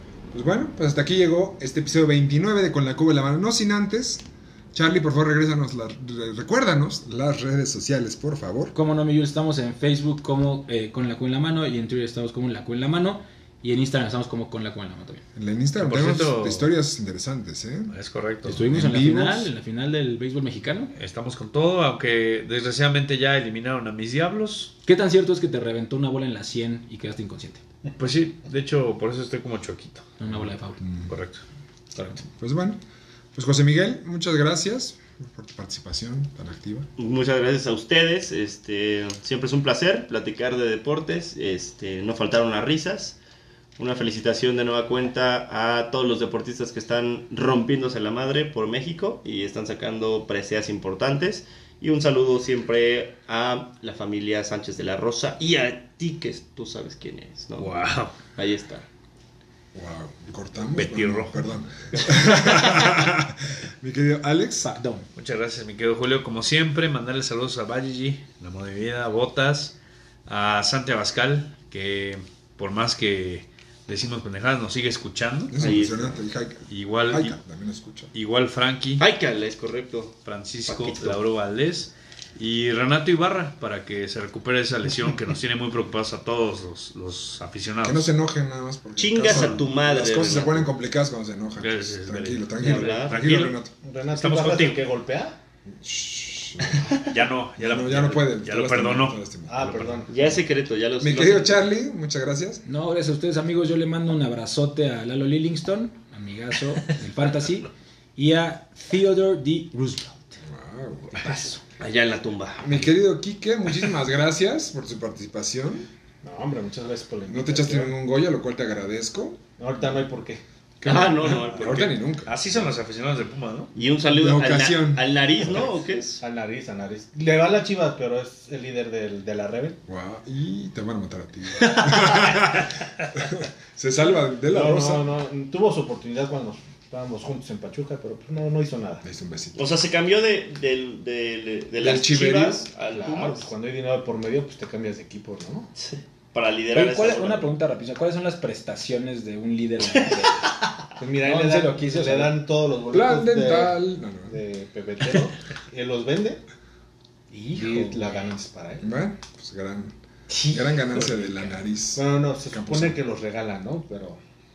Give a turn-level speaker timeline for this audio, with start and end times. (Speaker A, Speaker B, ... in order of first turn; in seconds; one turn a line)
Speaker A: 0.3-8.7
Speaker B: 8.7-15.2
Speaker A: 15.3-17.9
Speaker C: 15.8-16.7
Speaker C: 17.9-18.6
Speaker B: 18.4-20.9
Speaker A: 18.4-19.5
Speaker C: 20.9-24.7
Speaker B: 24.8-27.6
Speaker C: 28.0-30.1
Speaker B: 30.2-30.8
Speaker A: 30.8-31.1
Speaker C: 31.1-31.4
Speaker B: 31.9-32.2
Speaker A: 32.3-32.8
Speaker A: 33.3-36.9
Speaker D: 37.0-43.1
Speaker D: 43.8-58.9
Speaker C: 57.6-58.2
Speaker A: 59.7-64.7
Speaker C: 60.7-61.4
Speaker B: 64.6-65.1
Speaker C: 65.2-69.8
Speaker C: 70.3-75.6
Speaker A: 75.5-78.1
Speaker D: 75.6-76.2
Speaker C: 76.7-77.4
Speaker C: 78.1-79.0
Speaker D: 79.0-81.2
Speaker C: 80.2-88.1
Speaker A: 87.8-93.7
Speaker D: 89.0-90.7
Speaker C: 89.3-89.5
Speaker C: 91.6-94.8
Speaker D: 92.6-93.2
Speaker E: 93.8-95.4
Speaker A: 95.8-97.0
Speaker C: 97.0-100.0
Speaker A: 97.6-100.4
Speaker E: 99.5-100.1
Speaker D: 100.1-101.6
Speaker A: 101.0-102.6
Speaker B: 102.7-110.4
Speaker A: 110.4-111.3
Speaker B: 111.2-111.6
Speaker C: 111.2-111.5
Speaker D: 111.8-112.7
Speaker A: 112.6-115.9
Speaker E: 116.2-117.9
Speaker A: 117.3-119.4
Speaker E: 119.6-120.4
Speaker A: 120.8-122.5
Speaker D: 120.8-122.0
Speaker C: 122.2-123.7
Speaker D: 123.8-126.2
Speaker A: 124.0-125.2
Speaker E: 126.2-129.8
Speaker A: 129.9-135.0
Speaker E: 134.5-139.0
Speaker A: 139.0-139.7
Speaker D: 139.6-143.5
Speaker A: 141.8-142.7
Speaker E: 142.9-145.7
Speaker D: 145.8-147.5
Speaker B: 146.7-150.4
Speaker E: 151.0-156.4
Speaker B: 151.2-152.3
Speaker A: 152.9-154.4
Speaker B: 157.3-158.0
Speaker E: 157.6-158.9
Speaker A: 158.8-159.9
Speaker B: 160.3-161.6
Speaker A: 160.5-163.0
Speaker E: 161.9-164.2